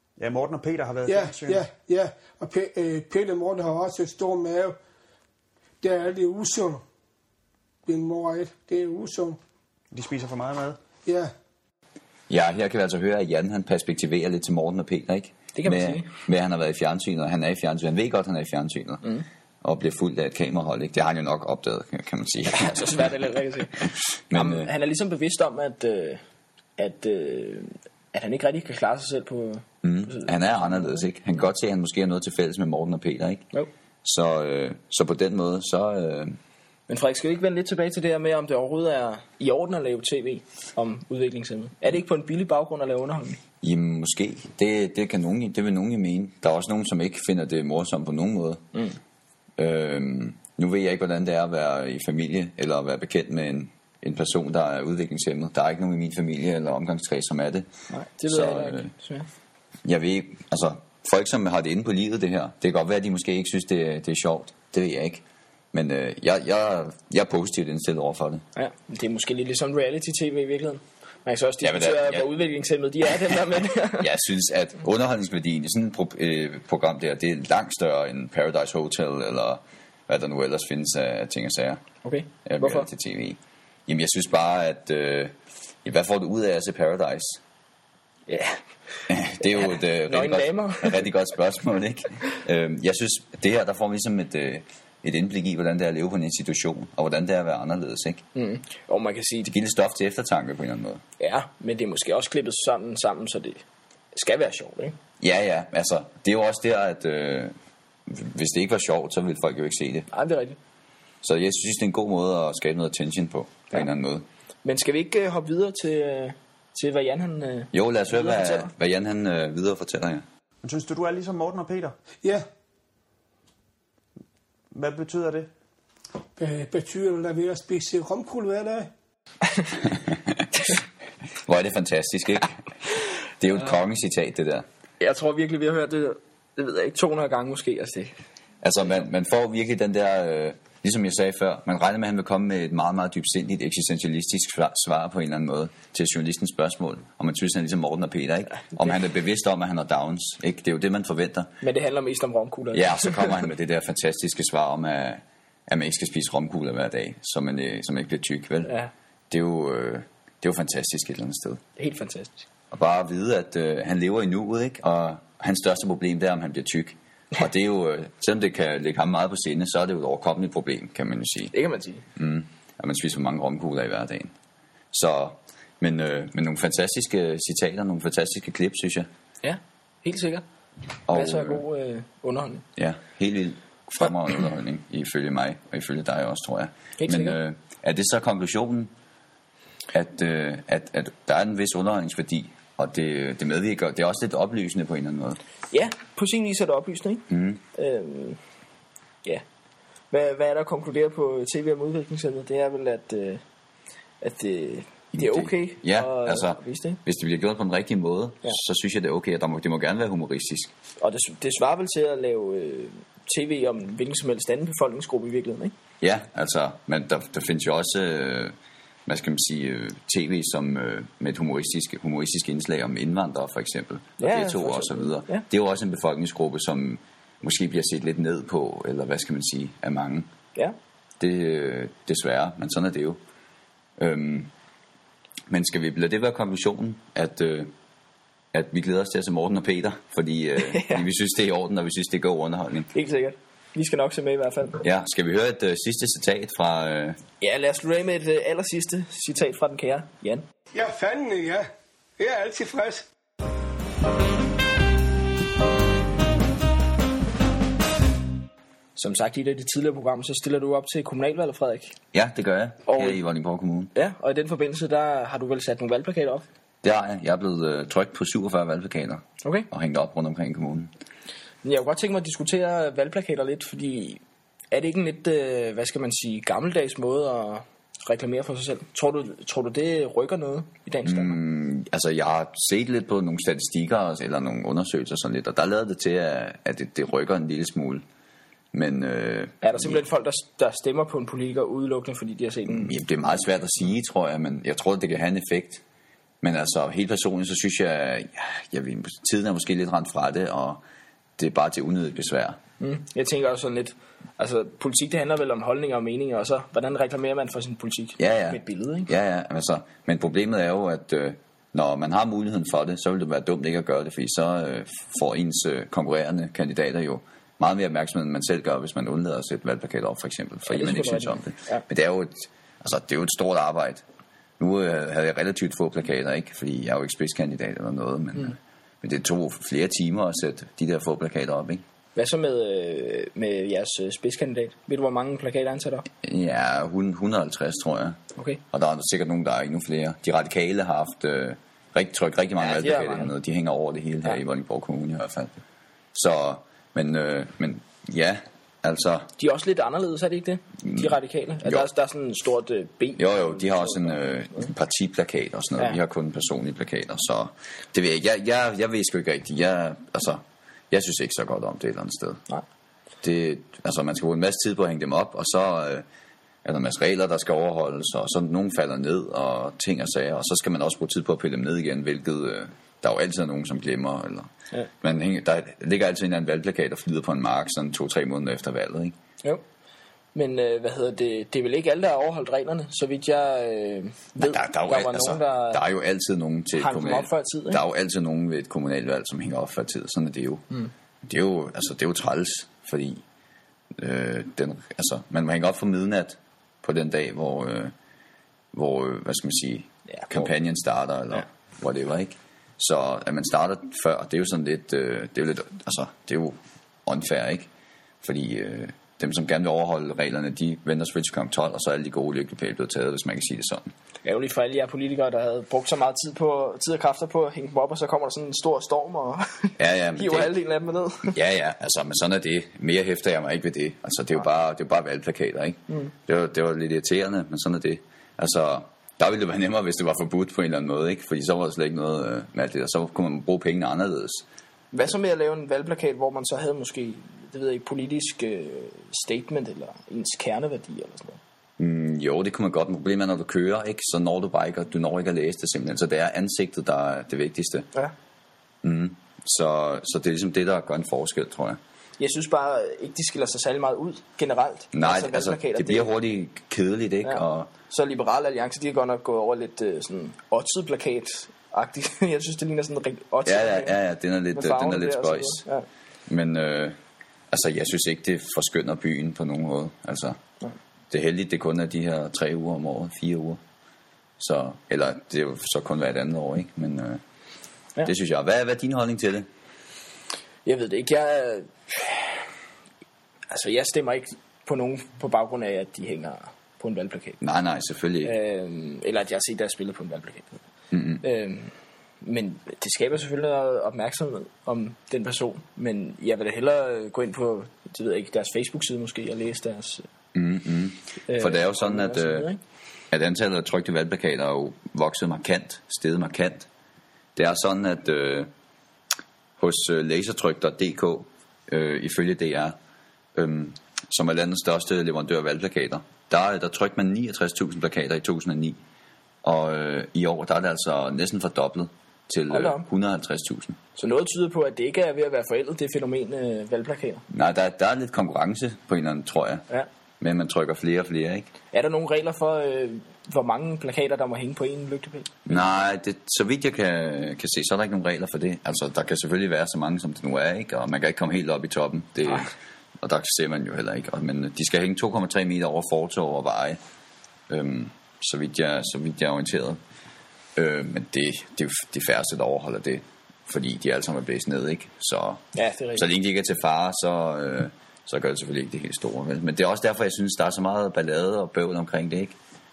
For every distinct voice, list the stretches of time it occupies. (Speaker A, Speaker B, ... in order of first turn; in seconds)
Speaker A: 0.2-1.6, 9.9-10.8, 120.6-122.0, 124.7-125.5
Speaker B: 1.1-4.8, 5.8-6.8, 7.9-9.4, 11.1-11.3, 126.4-128.9, 250.7-253.1
Speaker C: 12.3-19.1, 19.6-23.1, 23.8-24.7, 29.8-33.5, 34.0-36.4, 43.6-48.6, 49.6-57.7, 58.3-58.9, 59.9-68.4, 71.6-72.3, 73.9-81.8, 82.5-85.3, 85.8-87.4, 89.1-98.2, 99.5-101.0, 105.2-107.5, 108.1-110.1, 111.2-114.2, 117.7-120.2, 129.9-130.7, 131.5-134.6, 138.6-151.5, 152.7-158.7, 159.3-161.6, 162.7-171.5, 172.2-174.3, 174.9-179.1, 181.1-181.6, 182.8-188.9, 189.9-195.4, 197.3-197.6, 205.1-210.7, 216.0-218.5, 219.1-230.3, 231.2-233.2, 234.0-234.5, 235.5-237.7, 238.5-242.9, 244.8-247.2, 262.1-263.9, 266.8-270.9, 281.1-288.0, 288.7-290.0, 292.7-295.8, 296.4-300.8, 301.4-302.6, 308.2-324.0, 324.6-331.8, 336.2-338.2, 338.7-345.5, 346.1-349.3, 350.8-351.1, 353.2-362.4, 363.2-366.0, 366.6-374.5, 375.0-379.1, 384.4-390.6, 391.2-393.2, 394.0-397.9, 398.7-407.7, 408.2-413.9, 419.8-420.5, 421.3-434.4, 441.8-447.9, 448.8-451.8, 454.9-457.7, 463.5-465.6, 466.3-467.0, 467.5-470.4, 471.1-473.6, 474.4-477.2, 478.0-479.5, 487.4-488.3, 490.9-491.2, 500.3-502.5, 503.1-506.7, 507.4-508.5, 509.6-512.8, 513.4-518.8, 519.4-523.8, 527.3-529.7, 530.2-531.5, 535.5-546.8, 547.5-549.8, 550.5-555.4, 556.0-562.3
Speaker D: 15.6-16.1, 22.5-26.2, 26.8-31.0, 36.9-43.4, 57.9-59.3, 68.5-74.0, 82.0-82.9, 88.3-88.6, 89.4-91.0, 98.3-99.5, 101.2-103.6, 104.1-105.0, 110.1-110.6, 114.6-118.7, 135.0-138.1, 151.6-153.4, 158.6-158.9, 161.8-162.5, 171.5-172.0, 179.4-180.4, 181.1-182.6, 187.0-187.4, 195.7-198.4, 200.1-203.4, 204.2-207.0, 211.0-215.7, 224.2-225.5, 240.6-241.1, 242.9-244.8, 247.4-250.5, 259.0-261.9, 262.9-263.2, 263.9-266.4, 271.6-274.2, 274.7-281.4, 289.6-292.9, 302.8-309.1, 320.6-321.8, 332.1-336.1, 342.6-343.3, 349.4-354.6, 380.3-385.8, 386.8-387.8, 414.2-421.4, 434.9-441.4, 452.2-456.1, 457.2-463.9, 464.5-465.9, 480.6-482.5, 483.5-487.4, 488.2-490.6, 491.2-500.1, 501.3-502.6, 522.5-522.9, 524.0-527.2, 531.7-535.5, 555.5-556.0